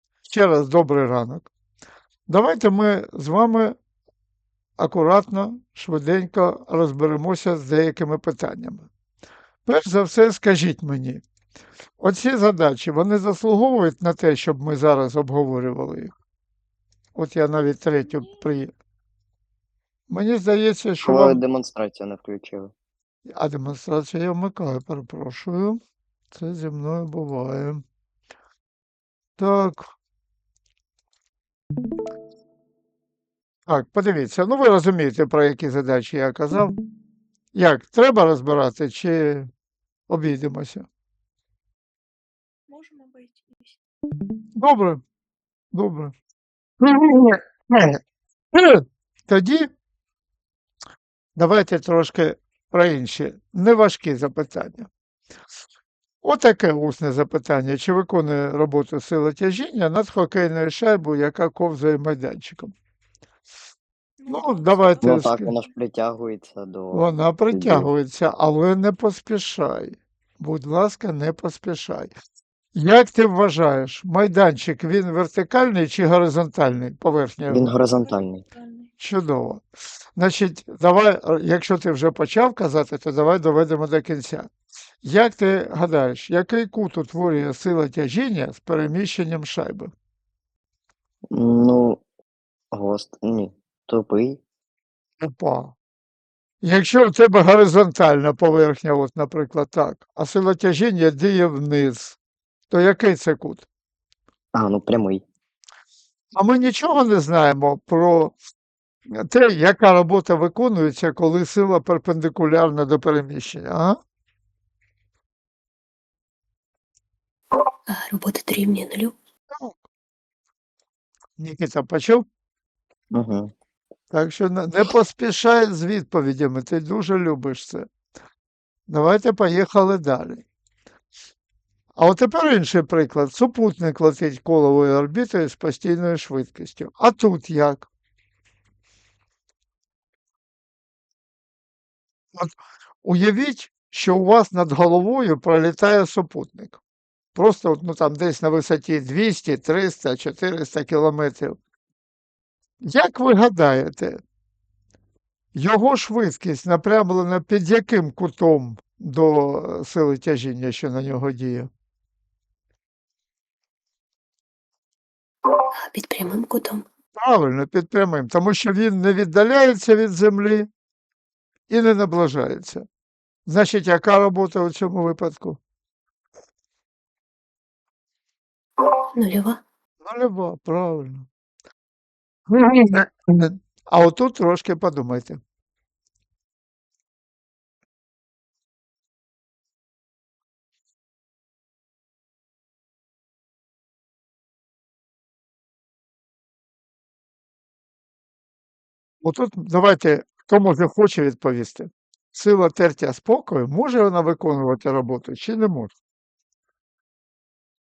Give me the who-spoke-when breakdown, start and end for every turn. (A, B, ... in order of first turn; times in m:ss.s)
0:00.3-0:01.5 A
0:02.3-0:03.8 A
0:04.8-0:08.9 A
0:09.7-0:11.2 A
0:12.0-0:16.1 A
0:17.2-0:18.7 A
0:20.1-0:21.4 A
0:21.0-0:22.7 B
0:23.3-0:25.8 A
0:26.3-0:27.8 A
0:29.4-0:29.9 A
0:33.7-0:36.8 A
0:37.5-0:39.5 A
0:40.1-0:40.9 A
0:42.7-0:43.8 C
0:44.6-0:45.0 A
0:45.7-0:46.2 A
0:46.8-0:48.0 A
0:48.5-0:49.7 A
0:51.4-0:54.9 A
0:56.2-1:02.7 A
1:04.2-1:05.6 C
1:04.3-1:05.5 A
1:05.0-1:07.9 B
1:06.9-1:12.1 A
1:12.8-1:17.7 A
1:17.5-1:18.4 B
1:18.0-1:18.9 C
1:19.0-1:19.6 A
1:20.2-1:24.5 A
1:25.0-1:29.9 A
1:31.3-1:32.0 B
1:32.7-1:34.4 B
1:35.2-1:35.7 A
1:36.6-1:42.2 A
1:42.7-1:43.6 A
1:44.5-1:45.2 B
1:46.4-1:48.4 A
1:49.1-1:54.0 A
1:57.9-1:59.1 D
1:59.5-1:59.8 A
2:01.4-2:02.2 A
2:03.1-2:03.5 B
2:04.1-2:07.9 A
2:08.9-2:10.4 A
2:12.0-2:17.9 A
2:22.4-2:26.8 A
2:27.4-2:31.6 A
2:32.8-2:34.2 A
2:35.6-2:41.7 A
2:45.8-2:46.8 D
2:47.2-2:50.7 A
2:51.7-2:52.9 A
2:53.5-2:55.6 A
2:59.1-2:59.6 D
3:00.0-3:01.3 A
3:02.5-3:05.4 A
3:19.2-3:25.9 A